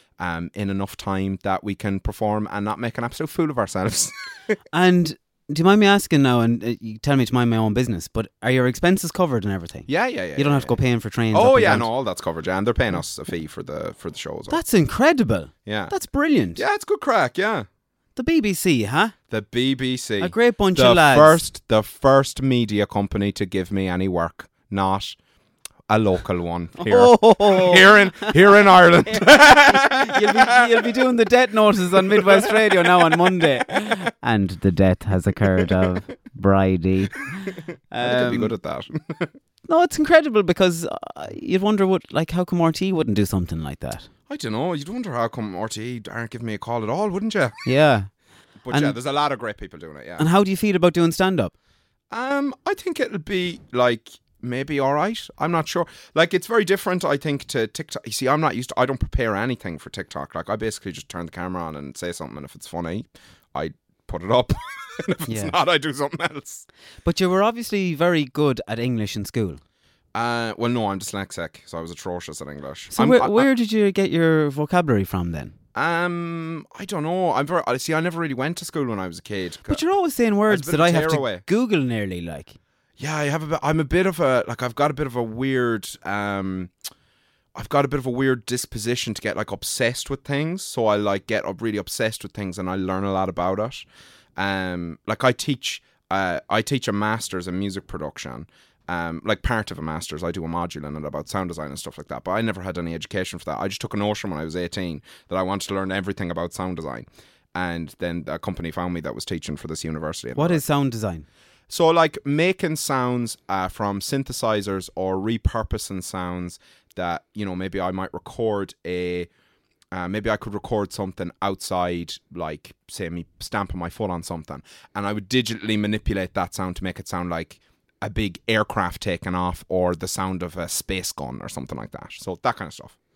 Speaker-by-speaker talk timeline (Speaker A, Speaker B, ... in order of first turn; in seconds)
Speaker A: 0.2-4.1, 9.9-10.8, 11.3-14.6, 15.7-15.9, 16.6-17.7, 19.3-25.2, 25.9-30.9, 32.0-33.4, 38.0-39.3, 44.3-47.6, 48.6-50.3, 52.1-66.7, 70.1-73.5, 75.8-79.8, 80.5-81.5, 83.0-86.7, 87.5-93.8, 94.4-110.6, 111.7-119.3, 119.9-132.9
Speaker B: 4.7-11.9, 14.5-16.6, 18.2-19.1, 20.2-21.5, 26.8-28.4, 29.1-38.5, 39.7-44.1, 47.6-48.1, 50.2-51.5, 65.3-65.6, 67.0-69.6, 72.9-75.5, 79.7-82.6, 110.4-111.3